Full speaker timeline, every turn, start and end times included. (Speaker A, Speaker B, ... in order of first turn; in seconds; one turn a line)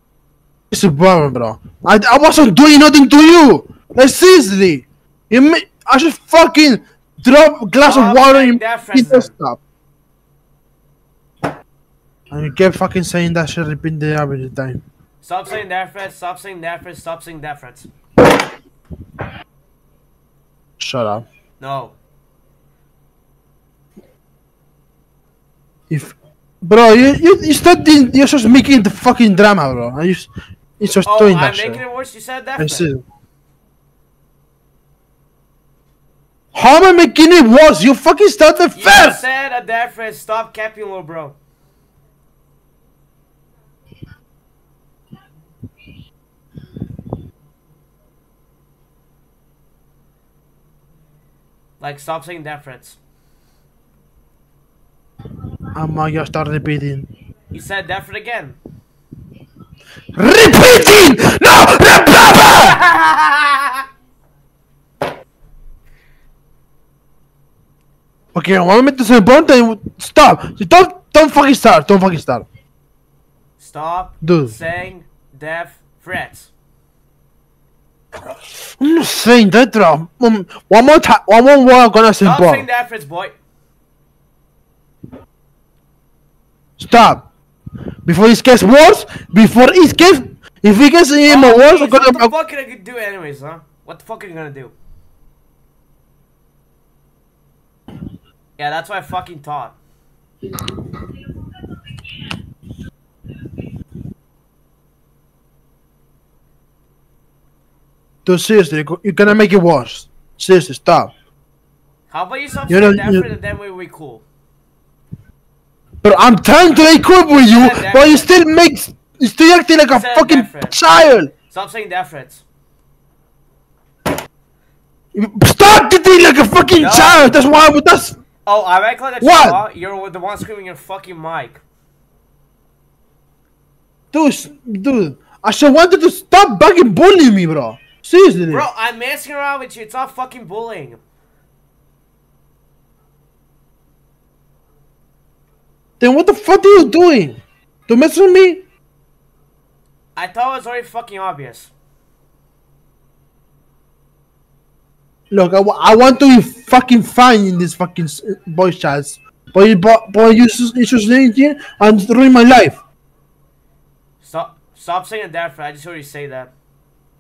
Speaker A: 0.7-9.6
Speaker B: 7.8-9.3
Speaker A: 12.3-14.8
Speaker B: 15.2-17.9
Speaker A: 20.8-21.3
Speaker B: 21.6-21.9
Speaker A: 25.9-31.8
Speaker B: 31.1-32.9
Speaker A: 32.6-33.0
Speaker A: 36.5-39.2
Speaker B: 38.8-41.4
Speaker B: 51.8-53.0
Speaker A: 55.8-57.1
Speaker B: 57.5-58.6
Speaker A: 60.1-62.8
Speaker B: 62.8-63.4
Speaker A: 68.3-72.5
Speaker B: 73.6-76.5
Speaker A: 74.2-74.6
Speaker A: 78.8-82.7
Speaker B: 82.2-83.4
Speaker A: 86.8-87.3
Speaker A: 88.0-92.3
Speaker B: 91.3-94.7
Speaker B: 98.6-99.8
Speaker A: 108.3-111.1
Speaker B: 112.1-114.2
Speaker A: 112.7-113.3
Speaker A: 116.0-121.3
Speaker B: 117.5-118.3
Speaker B: 119.9-120.8
Speaker B: 121.5-122.4
Speaker A: 125.1-128.2
Speaker B: 126.8-127.4
Speaker B: 128.5-131.6
Speaker A: 129.2-129.6
Speaker A: 134.1-138.7
Speaker B: 138.5-141.0
Speaker A: 146.0-148.6
Speaker B: 150.2-151.7
Speaker A: 155.3-162.8
Speaker B: 164.2-166.5